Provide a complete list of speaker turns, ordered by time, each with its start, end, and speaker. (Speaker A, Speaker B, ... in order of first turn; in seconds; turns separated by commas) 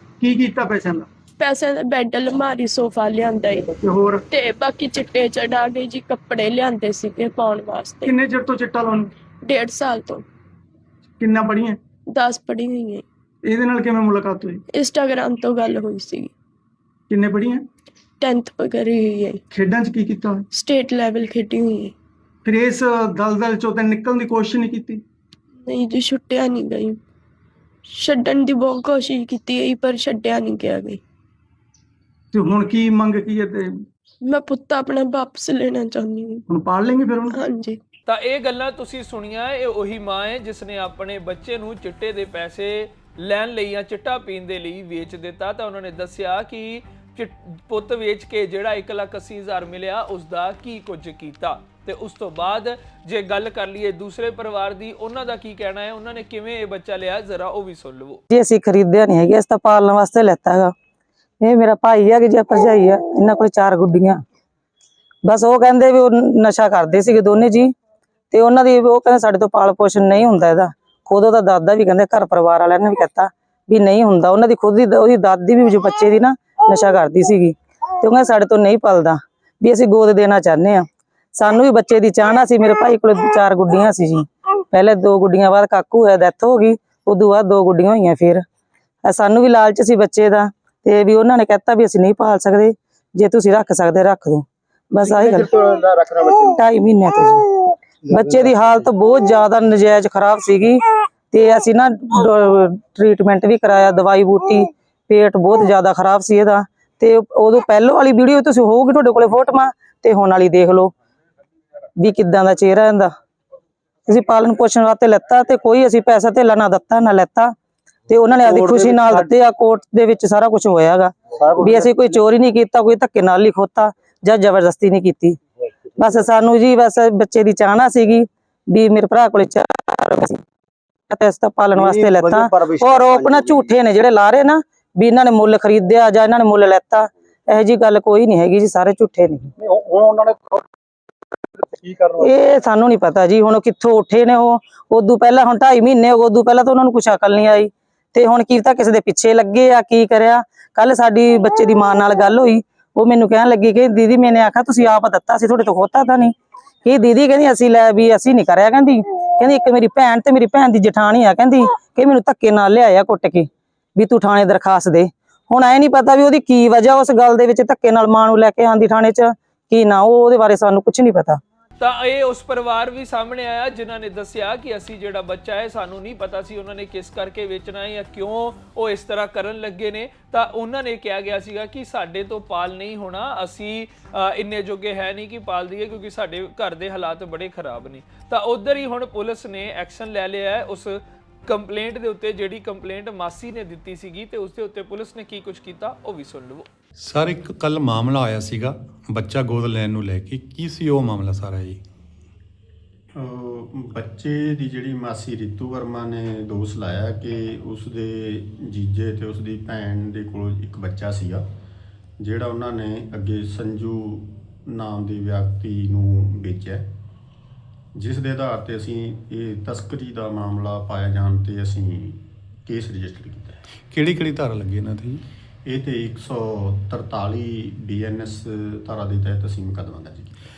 Speaker A: 0.2-1.1, Speaker B: 1.4-3.7, Speaker A: 3.8-4.2, Speaker B: 4.3-8.2, Speaker A: 8.1-9.1, Speaker B: 9.4-10.2, Speaker A: 11.2-11.8, Speaker B: 12.1-13.0, Speaker A: 13.4-14.6, Speaker B: 14.7-16.3, Speaker A: 17.1-17.6, Speaker B: 18.2-19.4, Speaker A: 19.5-20.4, Speaker B: 20.5-21.9, Speaker A: 22.4-25.0, Speaker B: 25.6-27.0, Speaker B: 27.9-31.0, Speaker A: 32.3-33.8, Speaker B: 34.2-36.4, Speaker A: 36.5-37.4, Speaker B: 37.3-37.8, Speaker C: 38.1-58.2, Speaker D: 58.3-60.7, Speaker D: 61.4-64.2, Speaker D: 65.2-67.7, Speaker D: 68.3-88.4, Speaker D: 89.0-95.5, Speaker D: 96.4-110.9, Speaker D: 112.0-113.1, Speaker D: 114.1-117.5, Speaker D: 118.1-125.4, Speaker D: 126.0-130.4, Speaker D: 131.1-139.5, Speaker D: 142.2-156.3, Speaker D: 156.8-171.4, Speaker C: 171.8-196.7, Speaker E: 197.0-201.8, Speaker F: 203.2-211.4, Speaker F: 212.2-216.8, Speaker F: 218.0-223.6, Speaker E: 223.9-225.2, Speaker F: 225.7-230.4